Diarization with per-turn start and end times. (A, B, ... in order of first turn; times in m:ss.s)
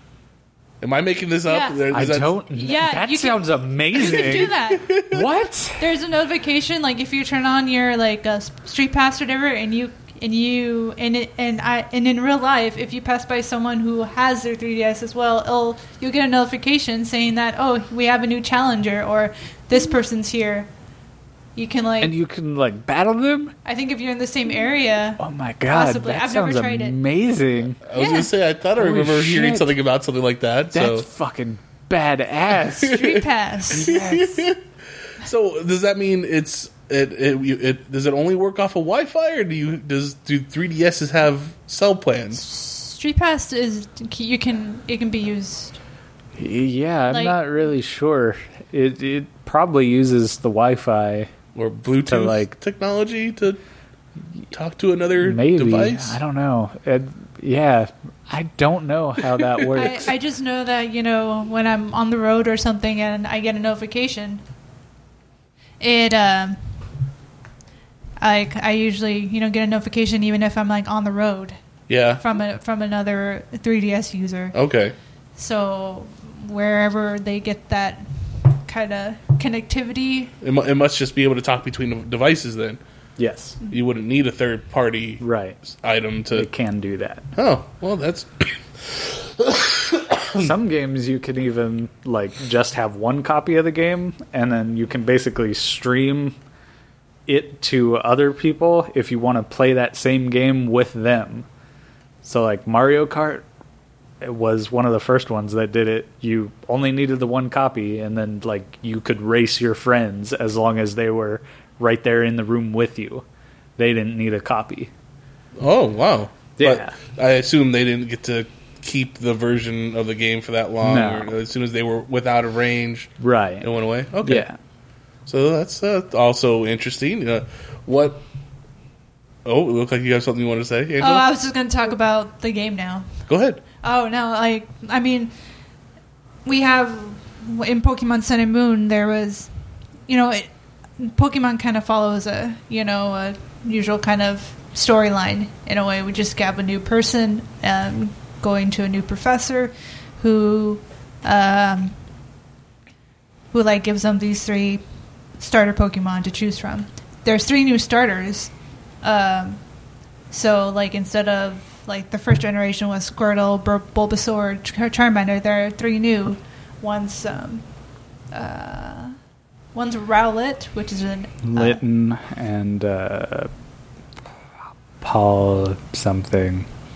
0:00.8-0:02.5 A
0:01.4-0:01.8 B
0:01.9-0:04.5 C
0:02.5-0:04.9 B
0:04.3-0:05.3 A
0:05.0-0:05.9 C
0:05.8-0:20.7 B
0:21.6-0:22.1 B
0:22.0-0:23.5 C
0:23.6-0:27.0 B
0:25.2-0:27.8 C
0:27.9-0:31.1 A
0:27.9-0:28.3 B
0:28.8-0:29.7 C
0:30.7-0:33.1 C
0:32.8-0:34.0 B
0:32.8-0:33.2 A
0:33.7-0:34.5 C
0:33.7-0:34.6 A
0:35.2-0:42.4 A
0:42.4-0:45.8 B
0:46.4-0:51.3 C
0:47.1-0:47.4 B
0:51.5-0:53.6 A
0:52.0-0:52.6 C
0:54.5-0:56.2 A
0:55.2-1:00.1 C
0:59.3-0:59.8 A
0:59.7-1:04.4 B
1:05.8-1:06.7 B
1:08.2-1:11.6 B
1:11.9-1:12.2 A
1:12.2-1:14.6 B
1:14.5-1:14.9 A
1:15.4-1:20.3 B
1:20.4-1:22.8 A
1:23.2-1:23.6 C
1:23.7-1:26.5 A
1:25.2-1:25.6 C
1:26.3-1:27.2 C
1:27.3-1:30.5 A
1:30.4-1:36.4 C
1:37.3-1:41.5 C
1:42.2-1:43.4 C
1:44.2-1:53.2 C
1:53.8-1:54.9 C
1:55.6-2:04.5 A
1:56.6-1:57.0 C
2:00.8-2:01.3 C
2:03.2-2:03.7 C
2:04.2-2:04.6 C
2:05.2-2:08.2 A
2:09.4-2:11.3 A
2:11.0-2:13.1 B
2:13.3-2:13.6 A
2:13.8-2:15.3 B
2:16.4-2:19.5 B
2:20.1-2:32.0 B
2:33.5-2:34.8 B
2:35.4-2:38.5 B
2:39.0-2:39.6 B
2:40.3-2:47.6 B
2:48.3-2:49.2 B
2:49.7-2:51.8 B
2:51.4-2:53.5 C
2:55.0-2:56.7 C